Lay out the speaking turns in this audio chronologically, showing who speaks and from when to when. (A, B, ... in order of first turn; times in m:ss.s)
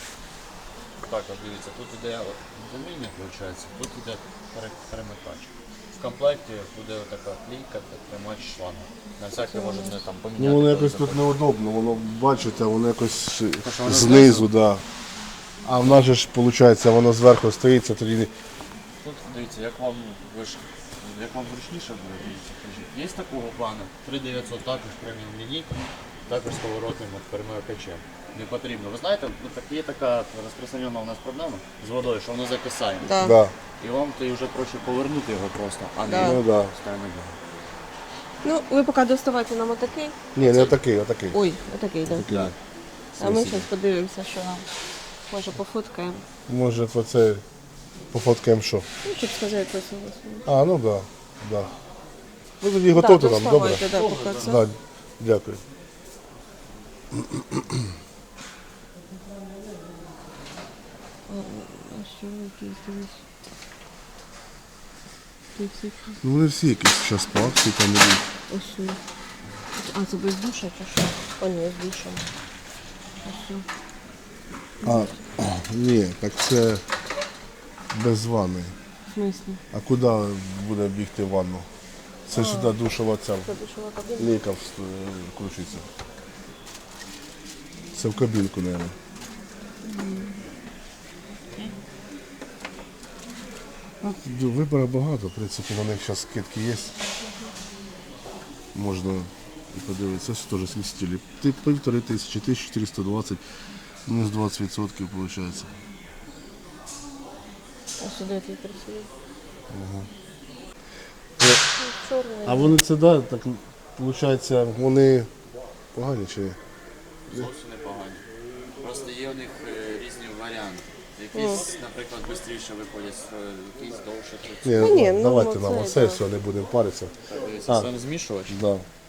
0:01.0-0:11.3 A
0:09.4-0:10.0 B
0:10.4-0:14.8 C
0:13.6-0:14.5 A
0:15.6-0:18.3 C
0:15.8-0:16.1 A
0:19.0-0:25.7 A
0:26.3-0:33.2 A
0:33.0-0:33.4 B
0:33.2-0:33.5 C
0:33.8-0:37.4 A
0:36.0-0:36.4 B
0:36.1-0:36.7 C
0:38.4-0:40.2 B
0:40.3-0:41.4 C
0:40.4-0:40.8 A
0:41.3-0:42.2 B
0:42.1-0:42.5 A
0:42.1-0:42.5 C
0:43.2-0:43.6 C
0:43.2-0:44.7 B
0:45.3-0:46.2 B
0:46.5-0:47.4 C
0:48.1-0:48.8 C
0:49.0-0:50.4 B
0:50.4-0:51.7 C
0:52.6-0:53.8 C
0:52.9-0:54.6 B
0:53.9-0:54.6 A
0:54.4-0:55.6 C
0:57.3-0:57.6 C
1:01.3-1:03.2 B
1:05.6-1:06.2 B
1:06.2-1:08.2 C
1:08.5-1:09.0 B
1:09.8-1:12.2 B
1:13.2-1:13.6 B
1:14.8-1:15.2 B
1:14.8-1:16.8 C
1:17.9-1:18.7 C
1:19.1-1:19.6 B
1:19.7-1:21.7 C
1:22.3-1:23.5 C
1:22.3-1:22.7 B
1:23.4-1:24.3 B
1:24.2-1:25.9 C
1:27.9-1:28.9 C
1:29.8-1:30.4 B
1:34.0-1:36.9 C
1:38.7-1:43.4 C
1:44.0-1:45.7 C
1:48.0-1:49.1 B
1:49.7-1:50.1 C
1:51.8-1:52.8 B
1:52.4-1:55.3 C
1:55.9-1:56.6 C
1:57.3-1:58.2 A
1:58.8-2:04.9 A
2:01.3-2:01.6 B
2:04.6-2:07.1 C
2:04.8-2:06.2 B
2:07.3-2:08.6 A
2:08.5-2:08.8 C